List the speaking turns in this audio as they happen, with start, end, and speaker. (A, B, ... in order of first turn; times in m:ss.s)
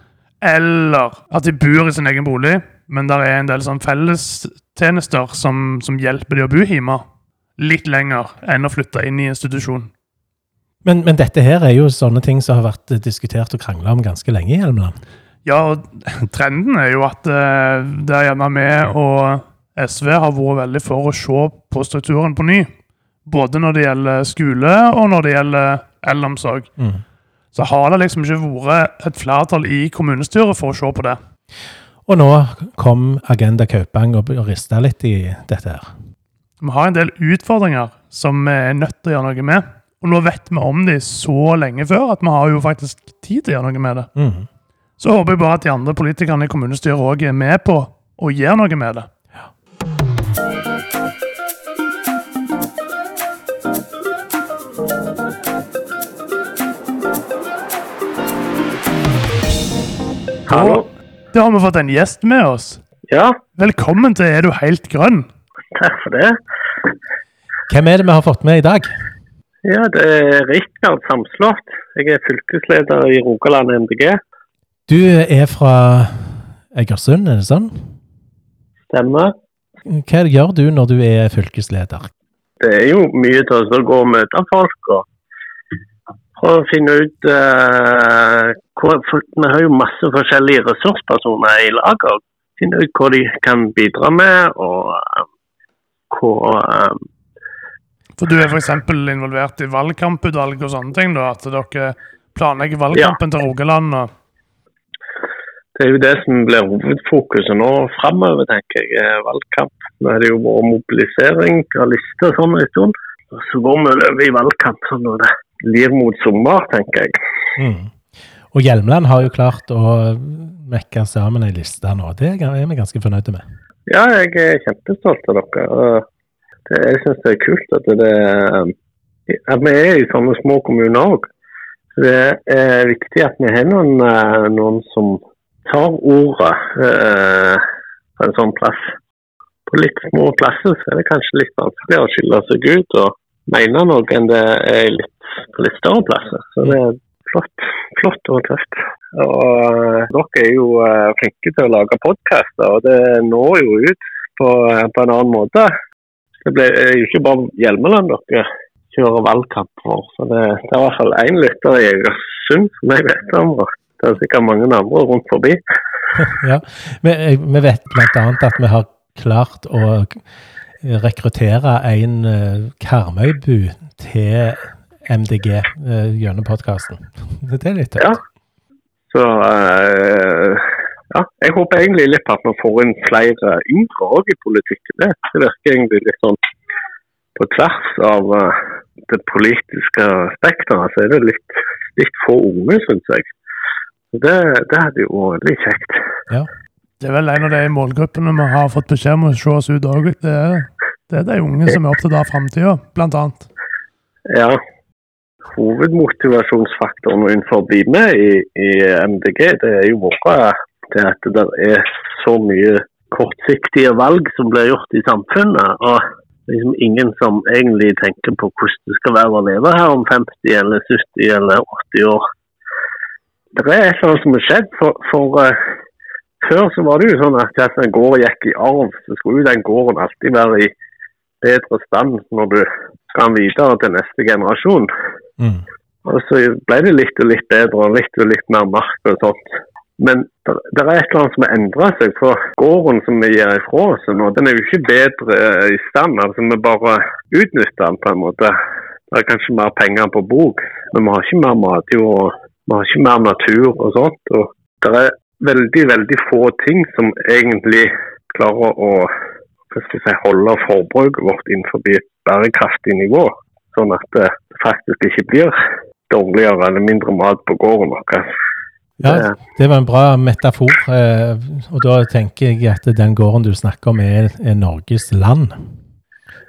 0:00.4-0:07.0 A
0:07.6-0:09.9 A
0:10.8-0:15.0 B
0:15.4-0:22.7 A
0:23.2-0:26.7 A
0:27.5-0:31.2 A
0:32.0-0:35.9 B
0:36.6-0:44.1 A
0:44.2-0:44.5 B
0:45.0-0:49.1 A
1:00.5-1:00.8 C
1:00.5-1:02.8 A
1:03.1-1:03.4 C
1:03.6-1:05.3 A
1:05.7-1:06.4 C
1:07.7-1:08.9 B
1:09.6-1:14.2 C
1:14.9-1:17.9 B
1:18.9-1:19.3 C
1:19.9-1:22.1 B
1:22.6-1:25.0 C
1:26.4-1:35.2 C
1:36.1-1:37.0 C
1:38.2-1:44.1 A
1:45.8-1:57.1 C
1:57.6-2:03.4 B
2:03.9-2:06.0 C
2:06.7-2:08.7 C
2:09.3-2:11.3 C
2:12.0-2:17.6 C
2:18.2-2:18.9 C
2:19.7-2:35.7 C
2:36.4-2:45.6 C
2:46.1-2:50.2 B
2:50.8-2:58.2 B
2:59.1-3:06.4 C
3:07.4-3:13.3 C
3:14.1-3:16.0 C
3:17.0-3:23.5 A
3:24.3-3:24.6 C
3:25.5-3:42.2 C
3:43.6-3:45.7 C
3:46.4-3:50.7 C
3:51.4-3:54.9 C
3:55.4-3:55.6 B
3:56.0-4:08.5 C
4:09.1-4:19.1 C
4:19.7-4:25.6 C
4:26.1-4:28.3 C
4:29.0-4:35.7 B
4:29.0-4:29.3 C